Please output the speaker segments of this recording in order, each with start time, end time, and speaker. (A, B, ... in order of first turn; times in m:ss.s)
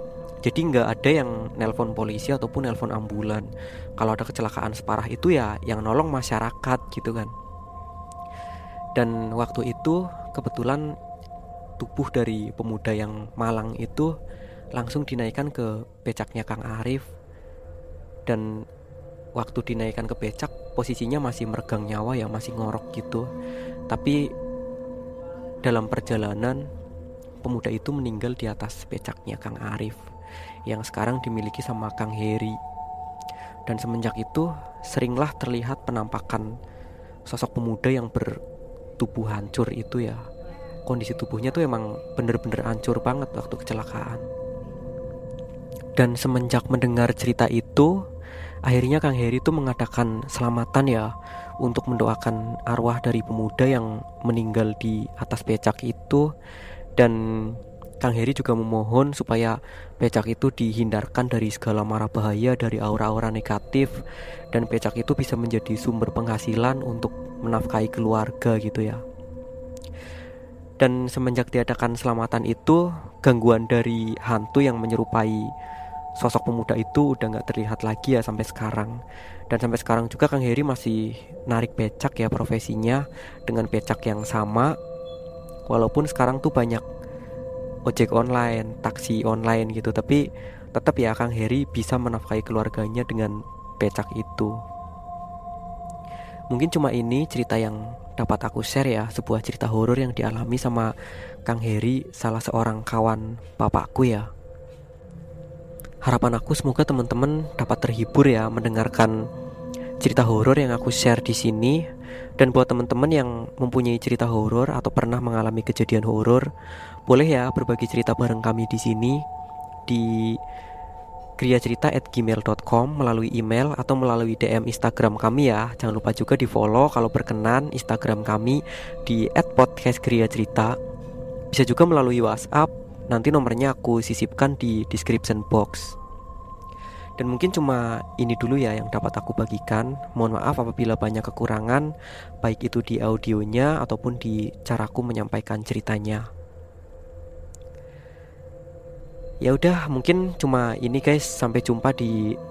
0:00.4-0:07.3 A
0:08.9-0:10.9 A
0:11.8-0:14.1 A
0:14.7-0:17.0 A
0:19.4-0:23.3 A
0:23.9-0:24.3 A
0:25.6-0:26.6 A
0:27.4-0:30.0 A
0:30.7-0:32.6 A
0:33.6-0:36.5 A
0:37.3-0:38.4 A
0:39.0-0:40.2 A
0:40.8-0:44.2 A
0:46.0-0:47.9 A
0:48.6-0:51.1 A
0:51.6-0:56.3 A
0:57.0-1:03.9 A
1:04.5-1:09.0 A
1:10.8-1:15.5 A
1:16.2-1:19.0 A
1:19.5-1:24.8 A
1:25.7-1:26.8 A
1:27.9-1:34.5 A
1:36.5-1:40.9 A
1:41.4-1:44.3 A
1:46.0-1:49.2 A
1:50.0-1:51.8 A
1:52.4-1:56.4 A
1:57.1-1:59.2 A
1:59.9-2:00.4 A
2:01.4-2:10.8 A
2:11.5-2:16.0 A
2:17.2-2:21.9 A
2:22.4-2:26.3 A
2:29.4-2:32.4 A